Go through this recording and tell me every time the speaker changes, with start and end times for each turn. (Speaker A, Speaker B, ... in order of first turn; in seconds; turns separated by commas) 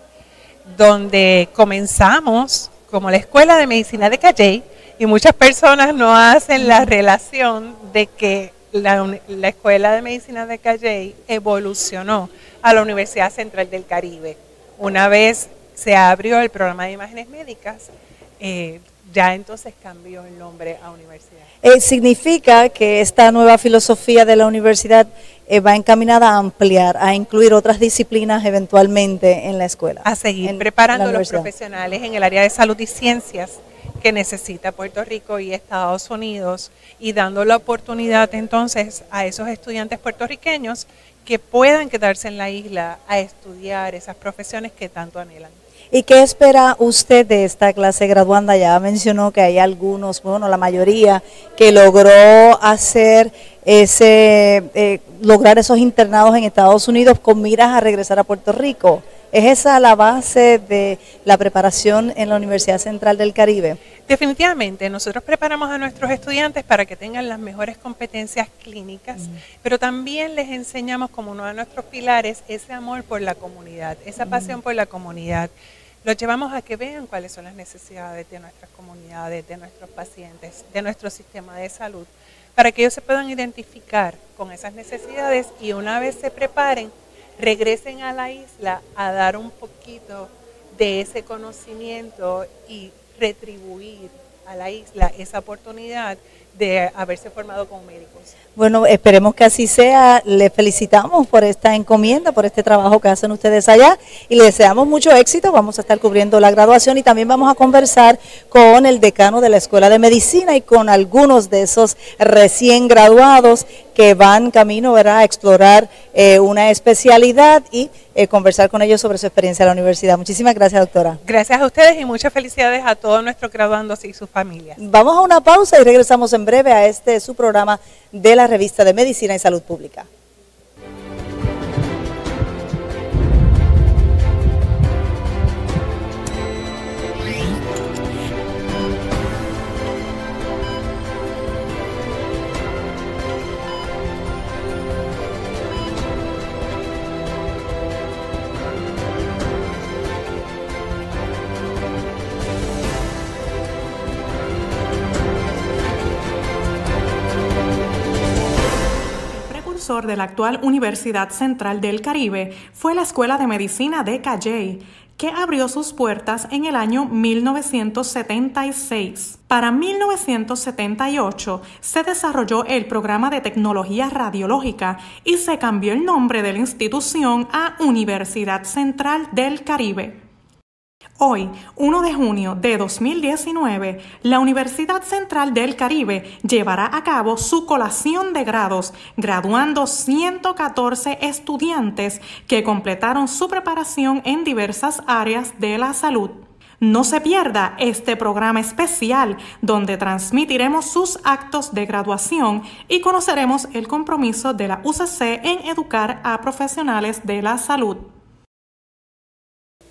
Speaker A: 0.7-21.5, Speaker B: 21.6-31.5, Speaker A: 30.0-45.5, Speaker B: 45.9-63.8, Speaker A: 64.0-75.5, Speaker A: 76.0-98.3, Speaker B: 98.5-121.2, Speaker A: 121.2-124.8, Speaker B: 124.8-130.1, Speaker C: 159.3-180.2, Speaker C: 181.2-208.1